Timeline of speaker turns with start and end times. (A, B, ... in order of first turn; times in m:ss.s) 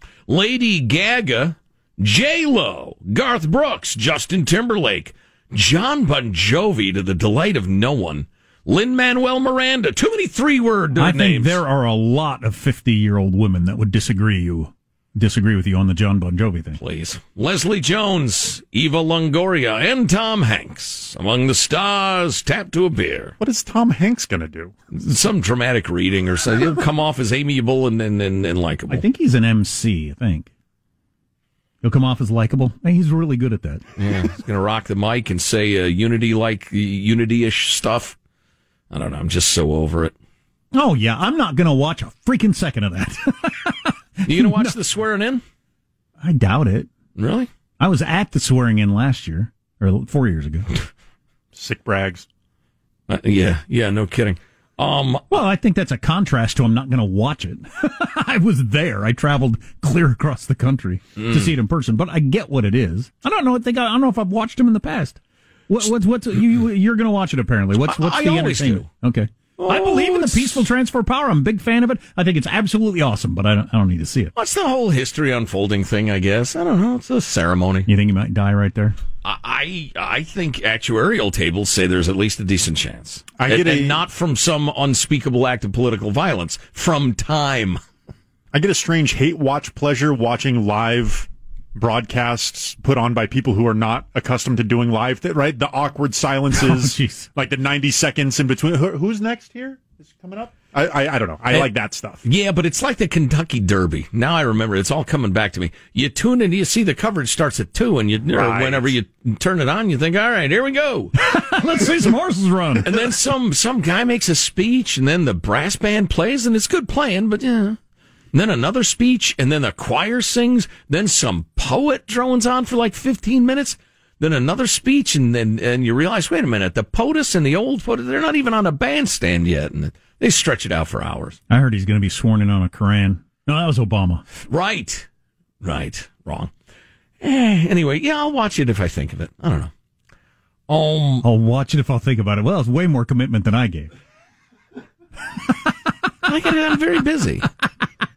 0:00.3-0:11.6 A
0:11.0-0:16.8 B
0:16.8-0:23.4 A
0:23.4-0:24.7 C
0:24.9-0:29.0 A
0:28.9-0:30.5 B
0:31.8-0:33.8 B
0:34.0-0:38.2 A
0:38.9-0:40.1 A
0:40.7-0:44.7 B
0:44.3-0:45.4 A
0:46.2-0:46.9 B
0:47.2-0:47.5 A
0:47.8-0:50.7 B
0:51.5-0:52.3 C
0:53.1-0:55.4 A
0:55.3-1:14.3 B
1:01.2-1:01.5 A
1:07.8-1:08.9 A
1:09.6-1:10.6 A
1:14.4-1:17.9 A
1:17.9-1:19.0 B
1:19.2-1:27.8 A
1:23.4-1:24.0 C
1:28.5-1:42.2 C
1:36.5-1:37.3 B
1:42.2-1:51.1 A
1:48.3-1:48.9 C
1:51.2-1:52.9 B
1:52.8-1:57.8 A
1:58.3-2:11.4 A
2:11.5-2:14.2 B
2:14.4-2:15.1 A
2:15.6-2:16.5 A
2:17.2-2:19.7 A
2:20.7-2:21.2 A
2:21.2-2:23.9 B
2:26.2-2:27.5 A